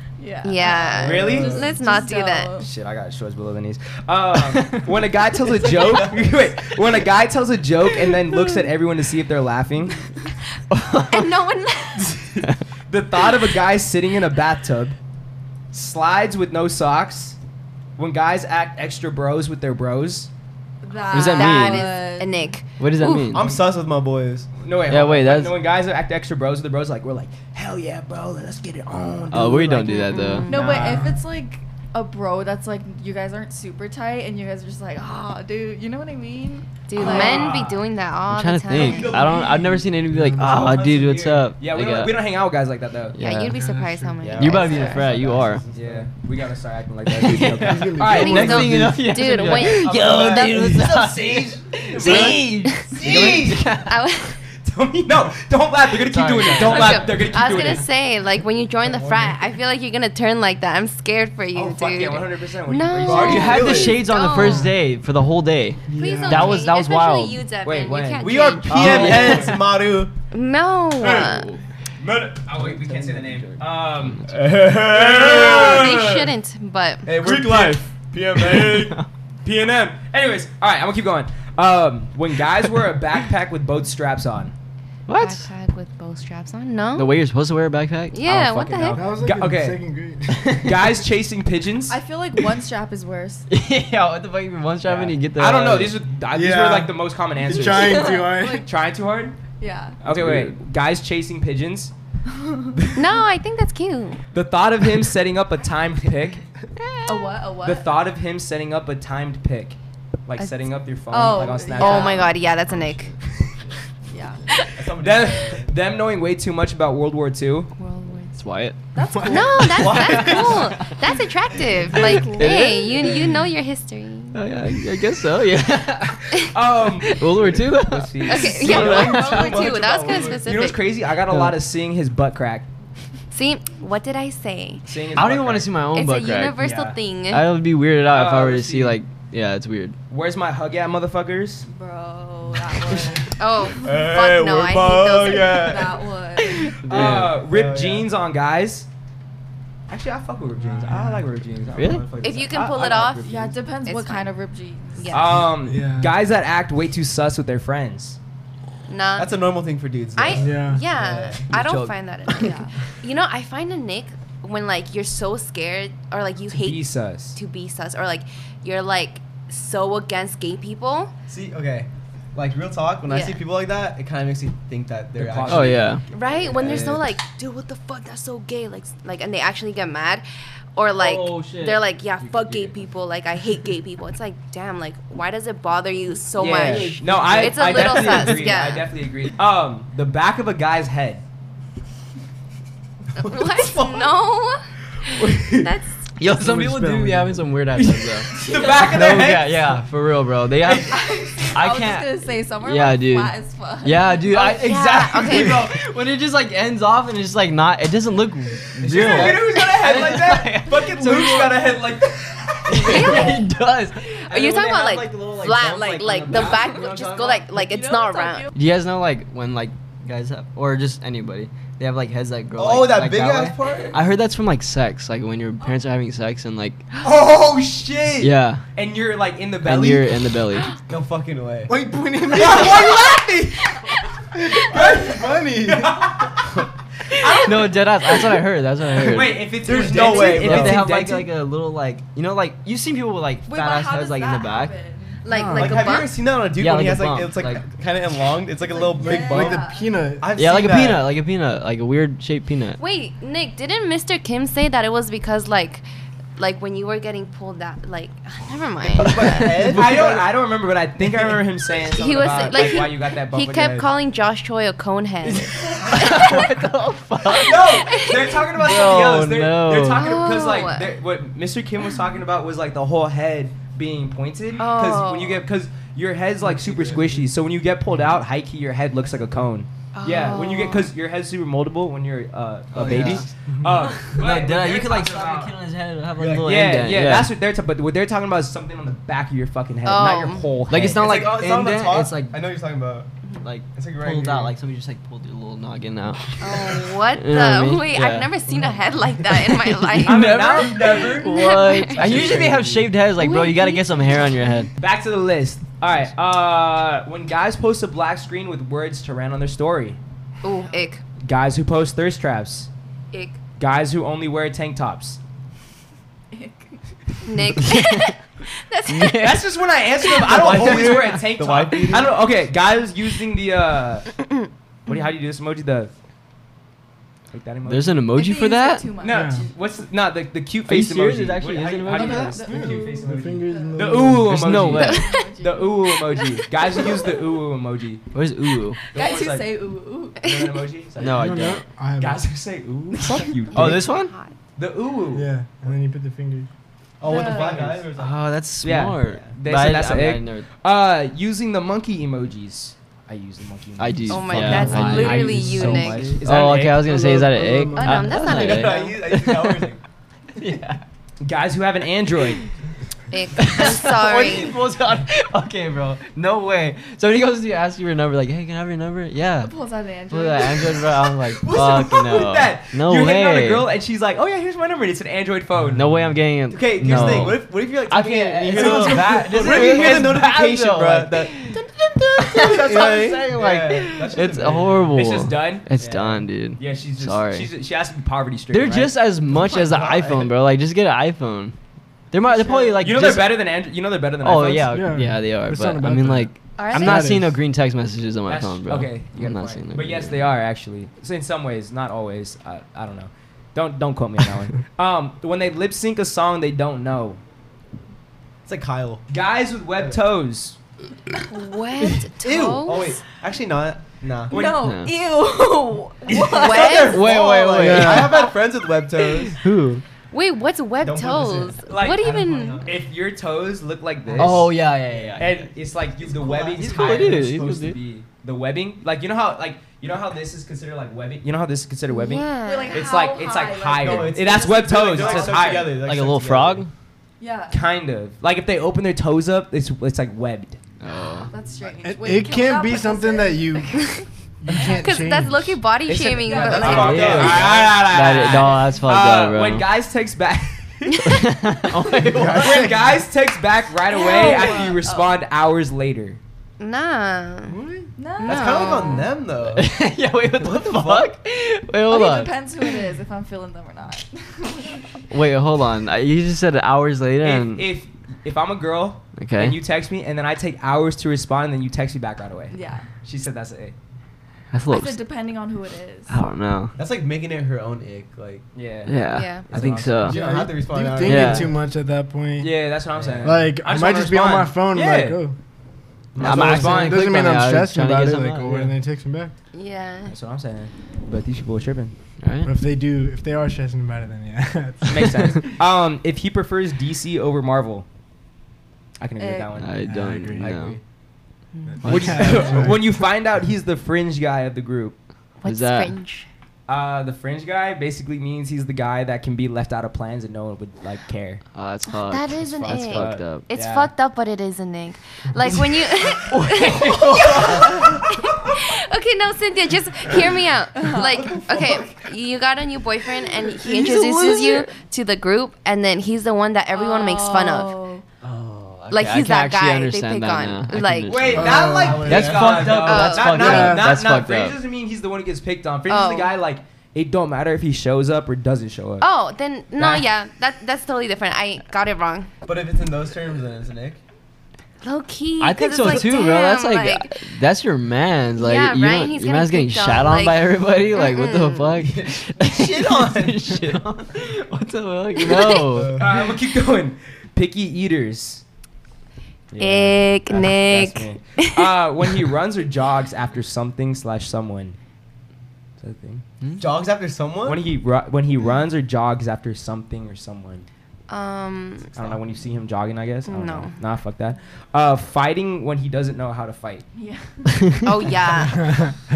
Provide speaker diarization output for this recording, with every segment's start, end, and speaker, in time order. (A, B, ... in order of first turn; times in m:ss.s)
0:00.2-0:02.7 A
0:00.4-0:02.5 B
0:01.0-0:01.6 C
0:01.0-0:01.7 D
0:02.6-0:10.0 D
0:04.4-0:04.8 E
0:05.5-0:06.5 C
0:10.7-0:11.3 E
0:11.1-0:12.2 B
0:12.4-0:15.0 D
0:15.7-0:17.4 D
0:18.0-0:20.3 D
0:20.8-0:22.6 A
0:21.1-0:21.9 E
0:21.1-0:22.6 B
0:22.8-0:23.5 E
0:23.2-0:24.5 C
0:23.3-0:23.6 D
0:24.6-0:30.0 D
0:24.9-0:25.6 E
0:29.3-0:30.5 E
0:29.8-0:30.9 B
0:30.4-0:37.5 A
0:30.5-0:31.1 D
0:36.9-0:39.1 B
0:37.0-0:37.8 D
0:38.3-0:42.2 E
0:38.8-0:39.7 C
0:38.8-0:39.5 D
0:39.5-0:40.8 F
0:40.4-0:43.2 D
0:40.8-0:41.3 C
0:43.1-0:43.5 E
0:43.2-0:45.1 B
0:43.5-0:44.2 F
0:44.2-0:46.1 C
0:44.3-0:45.6 E
0:45.7-0:48.9 D
0:47.1-0:54.0 E
0:47.4-0:48.9 F
0:48.1-0:50.8 B
0:49.5-0:53.7 C
0:49.6-0:50.3 D
0:51.0-0:53.6 D
0:52.7-0:53.0 B
0:53.7-0:54.4 B
0:54.6-0:57.8 D
0:56.0-0:57.8 E
0:56.5-1:04.7 B
0:58.9-0:59.4 C
1:01.5-1:03.8 D
1:03.0-1:04.1 C
1:03.1-1:07.4 E
1:05.9-1:06.6 F
1:05.9-1:09.5 B
1:07.6-1:09.6 D
1:08.2-1:10.1 C
1:08.7-1:09.6 E
1:10.3-1:11.5 B
1:11.0-1:11.6 E
1:12.0-1:16.3 D
1:12.6-1:13.5 C
1:14.0-1:14.3 E
1:14.3-1:15.9 C
1:15.3-1:17.1 B
1:17.0-1:19.0 C
1:17.2-1:18.9 D
1:18.7-1:19.0 E
1:19.4-1:24.5 D
1:25.1-1:25.5 E
1:25.1-1:27.2 B
1:26.9-1:29.0 E
1:28.1-1:29.0 B
1:28.7-1:29.8 D
1:29.0-1:30.6 F
1:30.4-1:30.7 E
1:30.5-1:32.0 D
1:31.9-1:33.5 A
1:33.5-1:36.0 E
1:34.9-1:39.4 D
1:36.3-1:38.6 F
1:37.7-1:38.7 A
1:39.6-1:40.0 A
1:40.0-1:41.9 D
1:40.1-1:40.6 E
1:42.3-1:42.8 A
1:42.9-1:44.2 B
1:44.3-1:46.4 D
1:46.8-1:47.2 E
1:47.0-1:47.9 A
1:47.6-1:52.3 D
1:51.1-1:52.3 A
1:51.8-1:53.1 B
1:52.6-1:53.1 E
1:54.1-1:54.6 A
1:54.7-1:55.7 C
1:55.0-1:57.7 D
1:57.8-1:58.4 B
1:58.4-1:58.8 E
1:58.9-2:00.2 A
1:59.2-2:04.4 B
1:59.6-2:00.6 C
1:59.9-2:00.8 E
2:01.9-2:02.6 A
2:02.2-2:03.3 E
2:04.3-2:09.7 E
2:06.5-2:12.7 D
2:08.2-2:10.8 B
2:08.6-2:10.5 C
2:11.3-2:11.6 E
2:13.3-2:14.8 B
2:14.8-2:15.7 D
2:15.1-2:16.6 E
2:15.9-2:17.5 B
2:16.6-2:17.0 D
2:17.3-2:20.0 E
2:18.1-2:19.0 D
2:20.1-2:21.7 D
2:21.6-2:23.7 A
2:23.4-2:25.6 B
2:23.8-2:26.1 C
2:25.2-2:26.8 A
2:26.6-2:27.4 E
2:26.8-2:28.9 D
2:26.9-2:28.1 C
2:29.9-2:33.5 D
2:30.6-2:31.3 F
2:31.8-2:32.0 E
2:31.8-2:33.4 C
2:32.2-2:33.3 B
2:33.2-2:35.3 A
2:33.8-2:34.3 B
2:35.0-2:35.3 B
2:35.1-2:38.2 D
2:35.3-2:36.2 F
2:38.9-2:39.3 B
2:39.2-2:41.5 C
2:40.1-2:51.1 B
2:40.3-2:40.8 F
2:41.5-2:42.5 E
2:42.4-2:42.7 A
2:46.5-2:47.4 D
2:51.3-2:57.0 C
2:53.1-2:53.4 B
2:55.2-2:55.9 D
2:55.4-2:56.0 E
2:56.1-3:00.2 B
2:56.7-2:56.9 E
3:00.8-3:08.9 B
3:01.0-3:01.8 E
3:02.3-3:02.7 D
3:06.4-3:11.2 D
3:06.6-3:08.6 E
3:13.2-3:16.1 B
3:13.2-3:14.1 C
3:15.0-3:15.7 D
3:16.2-3:31.8 E
3:16.3-3:17.5 F
3:17.7-3:19.8 D
3:18.5-3:18.8 A
3:20.6-3:21.5 D
3:20.9-3:24.4 A
3:24.3-3:25.6 B
3:25.3-3:25.6 C
3:28.8-3:30.2 C
3:28.9-3:33.2 D
3:32.7-3:37.4 E
3:32.8-3:33.4 B
3:32.9-3:33.3 C
3:34.2-3:38.5 B
3:36.0-3:36.6 C
3:36.3-3:36.6 D
3:37.5-3:38.6 A
3:38.5-3:47.1 E
3:42.5-3:44.0 C
3:47.0-3:50.1 D
3:48.2-3:48.6 E
3:49.6-3:50.7 E
3:50.9-3:51.7 C
3:51.7-3:53.1 F
3:52.3-3:53.7 D
3:54.3-3:56.0 F
3:54.5-3:56.5 D
3:57.1-3:58.3 D
3:57.4-4:04.7 E
3:58.9-4:01.2 D
3:59.6-4:01.2 C
4:03.4-4:05.2 A
4:05.2-4:06.1 B
4:05.3-4:06.0 F
4:05.5-4:09.6 C
4:06.5-4:07.7 E
4:08.6-4:10.0 A
4:09.0-4:10.3 F
4:10.2-4:11.2 C
4:10.3-4:12.8 E
4:12.8-4:15.8 B
4:16.4-4:19.8 B
4:18.9-4:20.3 C
4:19.2-4:20.1 E
4:19.7-4:23.8 D
4:21.0-4:22.9 C
4:21.9-4:26.1 B
4:25.3-4:30.2 E
4:27.3-4:28.4 B
4:27.4-4:45.5 D
4:29.9-4:30.9 B
4:34.6-4:35.4 B
4:39.9-4:40.9 B
4:42.7-4:43.3 E
4:42.8-4:43.2 C
4:43.5-4:43.9 F
4:44.0-4:47.3 E
4:46.2-4:46.9 C
4:46.4-4:51.0 D
4:49.8-4:50.4 B
4:50.7-4:52.4 E
4:50.7-4:53.1 C
4:53.4-4:58.3 E
4:53.7-4:54.6 C
4:56.4-5:02.4 B
4:58.5-4:58.8 C
4:59.5-5:04.7 E
5:00.0-5:01.3 D
5:01.9-5:02.8 D
5:02.0-5:02.7 C
5:03.2-5:04.2 B
5:04.8-5:10.0 D
5:10.4-5:11.0 B
5:11.2-5:12.7 D
5:13.1-5:13.4 B
5:13.6-5:15.2 D
5:16.3-5:17.4 A
5:17.2-5:19.2 B
5:17.6-5:18.1 E
5:18.9-5:19.4 E
5:19.2-5:24.1 D
5:20.2-5:22.2 C
5:20.3-5:22.0 E
5:24.8-5:25.9 D
5:27.3-5:28.0 D
5:27.6-5:28.9 E
5:28.1-5:29.5 A
5:29.0-5:38.0 D
5:29.1-5:29.4 F
5:30.6-5:32.4 E
5:31.9-5:32.3 C
5:31.9-5:33.9 A
5:32.5-5:34.8 F
5:34.3-5:35.2 E
5:34.8-5:37.1 A
5:36.7-5:37.1 B
5:38.1-5:38.8 E
5:38.8-5:40.4 A
5:38.9-5:39.5 D
5:40.2-5:43.9 D
5:41.0-5:41.6 E
5:41.0-5:42.2 F
5:43.5-5:44.3 B
5:43.5-5:44.1 E
5:44.6-5:45.3 D
5:45.1-5:46.5 F
5:47.0-5:48.3 C
5:47.0-5:47.7 A
5:47.2-5:47.8 D
5:47.4-5:50.4 E
5:48.6-5:57.0 D
5:53.8-5:59.7 E
5:54.1-5:56.1 B
5:56.6-5:58.2 F
5:57.8-5:59.0 B
5:57.8-5:58.0 A
5:58.1-5:59.8 C
6:00.4-6:00.8 E
6:01.2-6:02.4 D
6:03.1-6:04.6 B
6:03.4-6:09.5 E
6:09.4-6:11.0 A
6:10.1-6:13.7 E
6:11.4-6:15.8 D
6:15.7-6:27.5 E
6:16.5-6:25.0 C
6:16.8-6:17.4 D
6:18.5-6:20.3 D
6:24.9-6:25.7 D
6:25.8-6:26.3 C
6:26.6-6:28.9 D
6:28.5-6:31.5 E
6:29.2-6:30.4 C
6:32.1-6:33.4 E
6:32.3-6:32.9 A
6:32.8-6:34.7 D
6:34.2-6:40.2 E
6:34.7-6:37.4 F
6:36.6-6:37.1 B
6:38.3-6:47.2 D
6:48.4-6:49.0 C
6:49.1-6:50.6 D
6:51.3-6:53.0 B
6:52.2-6:54.4 C
6:54.3-6:54.7 D
6:54.3-6:57.0 A
6:54.6-6:54.9 E
6:56.1-6:59.4 C
6:56.1-6:56.4 D
6:56.4-6:57.0 B
6:56.9-6:58.3 E
6:57.6-6:58.2 F
6:59.2-6:59.8 E
7:00.1-7:02.6 B
7:00.8-7:02.8 C
7:01.7-7:04.5 D
7:04.1-7:05.2 C
7:04.2-7:05.5 E
7:05.2-7:15.8 D
7:06.0-7:07.4 C
7:06.6-7:07.8 E
7:11.9-7:12.9 B
7:12.4-7:15.6 A
7:13.8-7:16.6 C
7:15.7-7:16.7 E
7:17.2-7:17.6 A
7:17.5-7:20.6 D
7:20.8-7:21.3 E
7:21.2-7:24.0 A
7:21.8-7:23.9 F
7:24.4-7:25.6 F
7:24.8-7:27.3 B
7:25.9-7:31.2 D
7:26.2-7:27.2 A
7:26.2-7:27.8 C
7:26.6-7:29.6 E
7:30.9-7:31.2 B
7:31.0-7:32.7 E
7:31.8-7:32.1 A
7:32.0-7:33.0 F
7:32.3-7:36.2 D
7:33.9-7:35.2 A
7:36.6-7:37.6 B
7:37.5-7:37.9 F
7:38.0-7:39.0 A
7:38.2-7:39.1 B
7:38.2-7:39.8 C
7:39.5-7:42.3 E
7:40.3-7:41.1 C
7:41.9-7:44.8 A
7:45.1-7:47.7 E
7:47.2-7:53.7 D
7:49.2-7:49.6 E
7:52.5-7:52.9 A
7:54.5-7:55.0 E
7:54.7-7:56.2 A
7:56.1-7:56.8 E
7:56.8-7:58.4 C
7:58.5-8:00.5 D
7:58.8-8:00.4 E
7:59.1-7:59.5 B
7:59.5-8:01.5 C
8:00.4-8:02.6 F
8:01.0-8:01.5 E
8:02.4-8:05.2 D
8:02.9-8:03.4 C
8:03.2-8:05.4 F
8:06.1-8:06.6 C
8:06.2-8:07.0 D
8:06.2-8:08.7 E
8:06.2-8:09.3 F
8:09.5-8:10.1 B
8:10.1-8:11.9 D
8:12.2-8:12.5 E
8:12.4-8:15.4 F
8:14.8-8:17.8 D
8:19.0-8:19.8 D
8:19.2-8:19.5 A
8:19.6-8:20.8 E
8:19.8-8:20.7 F
8:20.4-8:20.8 C
8:21.6-8:22.8 F
8:21.8-8:22.7 E
8:21.8-8:25.0 D
8:22.4-8:22.7 C
8:25.4-8:26.3 B
8:25.4-8:25.9 E
8:26.7-8:31.4 D
8:31.5-8:33.4 E
8:31.9-8:47.8 B
8:32.6-8:33.9 D
8:36.1-8:37.8 E
8:40.7-8:41.4 A
8:41.2-8:41.9 C
8:43.6-8:44.7 E
8:46.7-8:48.0 A
8:48.2-8:54.6 E
8:48.9-8:51.2 B
8:51.1-8:59.0 D
8:51.3-8:52.4 F
8:51.4-8:53.7 C
8:52.8-8:53.5 B
8:53.4-8:53.9 F
8:55.9-8:56.3 B
8:59.0-9:02.3 B
9:02.4-9:04.0 C
9:04.8-9:07.2 B
9:05.4-9:16.0 E
9:05.8-9:06.1 C
9:08.4-9:11.8 B
9:11.8-9:13.8 C
9:15.5-9:16.3 C
9:16.0-9:18.4 D
9:19.5-9:24.8 D
9:19.6-9:21.7 B
9:25.8-9:26.2 D
9:26.6-9:27.6 C
9:27.4-9:30.6 D
9:31.1-9:31.9 B
9:32.0-9:36.8 D
9:33.3-9:33.7 B
9:36.9-9:37.6 A
9:37.8-9:38.7 B